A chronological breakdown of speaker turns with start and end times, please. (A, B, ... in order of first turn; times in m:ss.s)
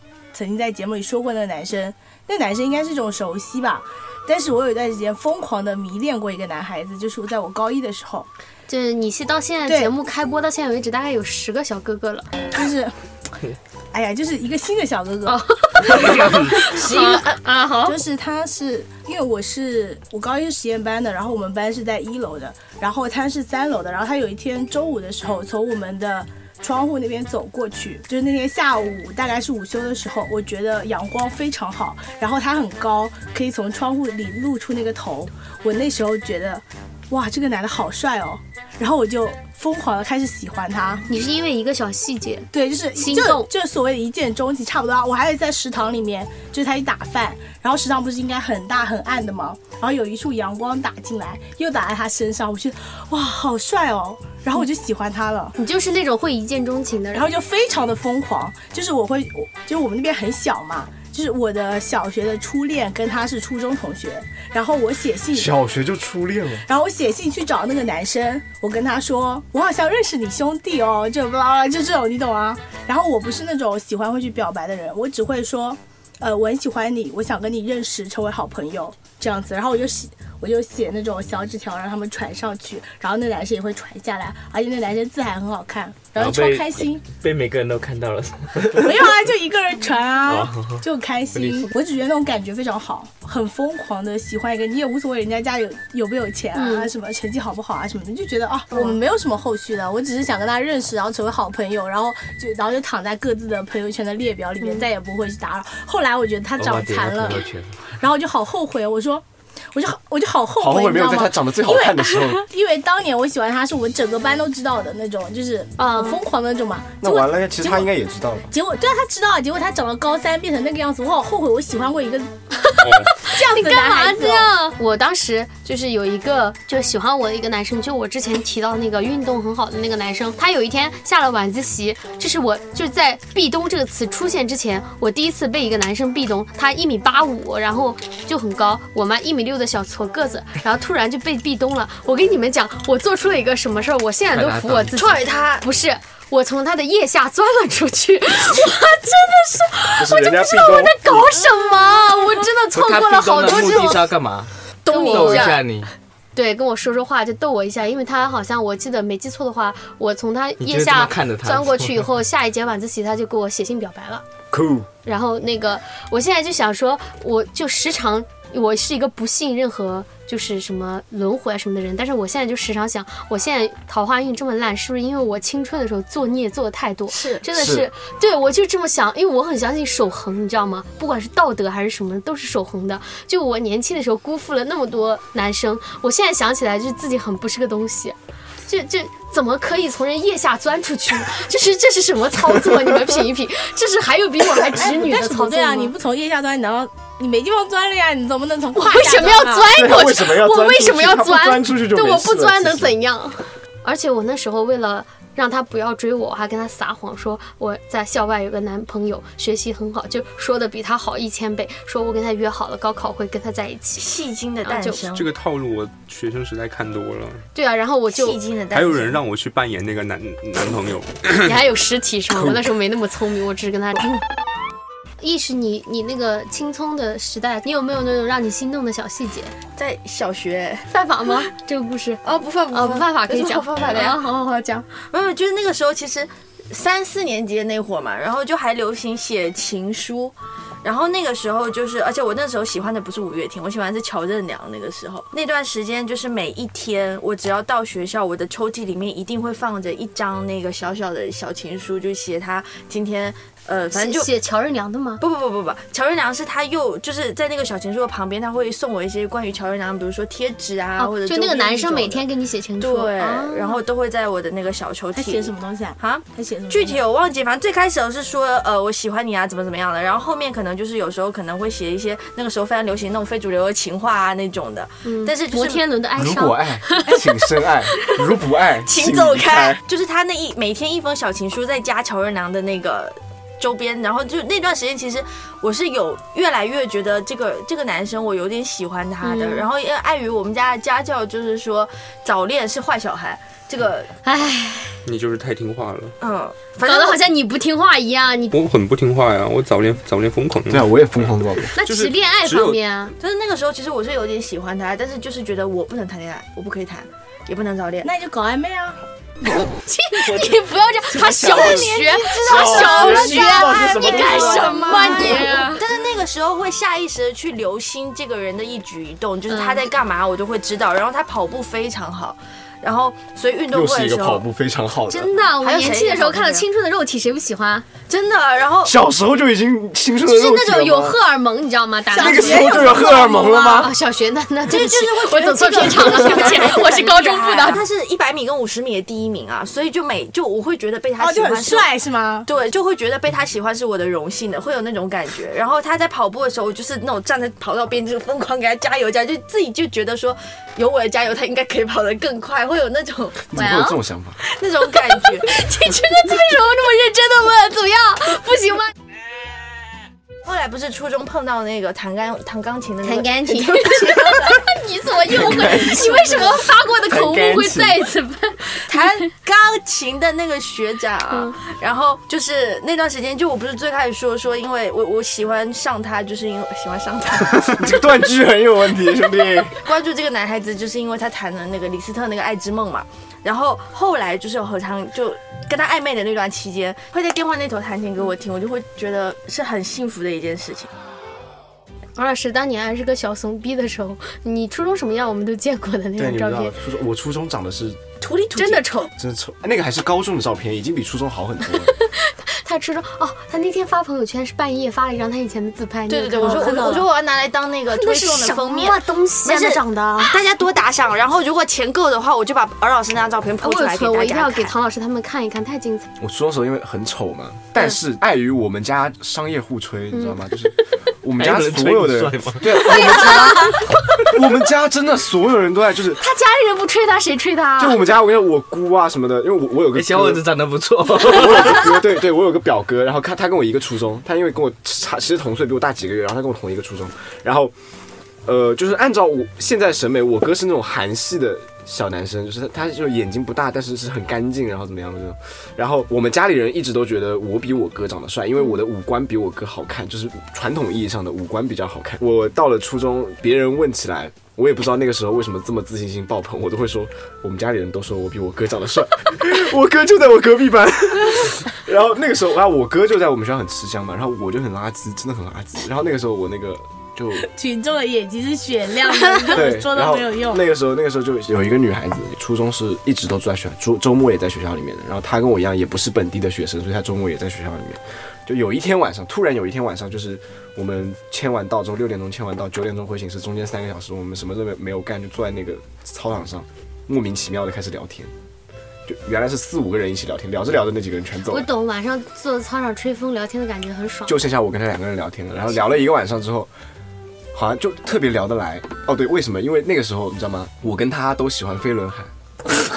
0:00.3-0:08.3 A
0:08.7-0:12.3 B
0:09.7-0:09.9 A
0:12.5-0:12.9 A
0:13.9-0:16.4 A
0:15.3-0:18.0 B
0:16.9-0:17.2 C
0:17.9-0:41.1 A
0:41.1-0:43.5 B
0:42.5-0:55.6 A
0:55.6-0:57.3 B
0:57.1-1:05.5 A
1:05.3-1:06.7 D
1:06.7-1:27.0 A
1:26.2-1:29.2 E
1:28.7-1:57.9 A
1:30.3-1:30.8 E
1:31.4-1:31.7 E
1:36.6-1:36.9 B
1:38.7-1:39.0 B
1:44.6-1:44.9 B
1:46.6-1:47.8 E
1:50.6-1:52.4 D
1:55.8-1:56.2 B
1:57.0-1:58.5 D
1:58.5-2:02.3 A
2:02.6-2:34.1 B
2:02.8-2:03.1 F
2:03.2-2:04.5 A
2:24.3-2:25.0 E
2:25.0-2:25.7 C
2:30.0-2:31.3 D
2:32.7-2:35.9 E
2:34.9-2:35.6 C
2:34.9-2:35.6 B
2:36.4-2:44.2 B
2:40.6-2:42.1 E
2:44.5-2:44.9 D
2:45.0-3:16.0 B
2:57.1-2:57.4 C
2:57.5-2:57.9 D
3:14.6-3:19.7 A
3:18.8-3:34.1 B
3:19.7-3:23.0 D
3:34.0-3:35.3 C
3:34.6-3:35.0 B
3:35.1-3:37.5 F
3:37.6-3:38.4 B
3:38.1-3:39.2 C
3:38.7-3:41.6 F
3:41.4-3:44.2 B
3:42.3-3:42.7 D
3:45.2-3:49.6 B
3:49.8-3:50.9 C
3:50.9-3:54.9 B
3:52.2-3:54.2 C
3:55.1-4:14.3 C
4:13.9-4:15.2 B
4:15.2-4:22.3 C
4:21.0-4:23.8 B
4:22.8-4:35.8 C
4:25.1-4:27.0 A
4:35.0-4:37.3 B
4:36.2-4:39.8 D
4:38.8-4:54.1 C
4:49.2-4:49.7 B
4:54.2-4:55.0 B
4:55.0-4:56.2 F
4:56.2-4:57.2 C
4:56.8-4:58.6 B
4:58.5-5:02.8 F
5:00.7-5:01.8 D
5:01.8-5:03.1 B
5:03.2-5:08.1 C
5:08.0-5:09.0 A
5:09.6-5:15.9 B
5:10.2-5:10.6 E
5:11.2-5:11.8 E
5:11.2-5:24.4 C
5:12.4-5:15.2 D
5:19.5-5:19.9 B
5:23.7-5:25.3 D
5:25.1-5:27.9 B
5:25.6-5:26.7 C
5:28.1-5:28.9 C
5:28.8-5:31.2 D
5:30.3-5:37.8 B
5:32.2-5:33.9 D
5:32.2-5:32.9 A
5:32.3-5:33.1 C
5:34.7-5:41.9 C
5:41.2-5:42.5 A
5:42.5-5:53.4 C
5:53.5-5:54.4 D
5:53.5-5:54.0 B
5:54.5-5:55.5 C
5:54.9-5:58.9 B
6:00.4-6:04.6 C
6:03.0-6:09.3 B
6:05.3-6:06.6 D
6:07.1-6:08.0 D
6:08.9-6:17.9 C
6:11.3-6:11.6 B
6:17.5-6:19.8 D
6:19.7-6:30.9 C
6:32.2-6:36.8 B
6:36.2-6:38.2 D
6:38.2-6:39.1 C
6:38.5-6:39.1 B
6:39.2-6:41.9 D
6:41.8-6:47.1 B
6:46.1-6:54.7 C
6:47.9-6:50.4 B
6:53.6-6:56.1 B
6:56.2-7:06.2 D
7:00.1-7:00.4 B
7:01.4-7:03.0 E
7:02.8-7:04.3 B
7:06.2-7:08.0 B
7:07.8-7:10.4 D
7:10.0-7:11.9 E
7:11.2-7:17.7 D
7:18.4-7:47.5 D
7:47.4-7:50.6 A
7:49.5-8:08.3 D
8:09.1-8:11.7 D
8:11.5-8:14.4 B
8:14.3-8:16.7 D
8:17.5-8:22.3 D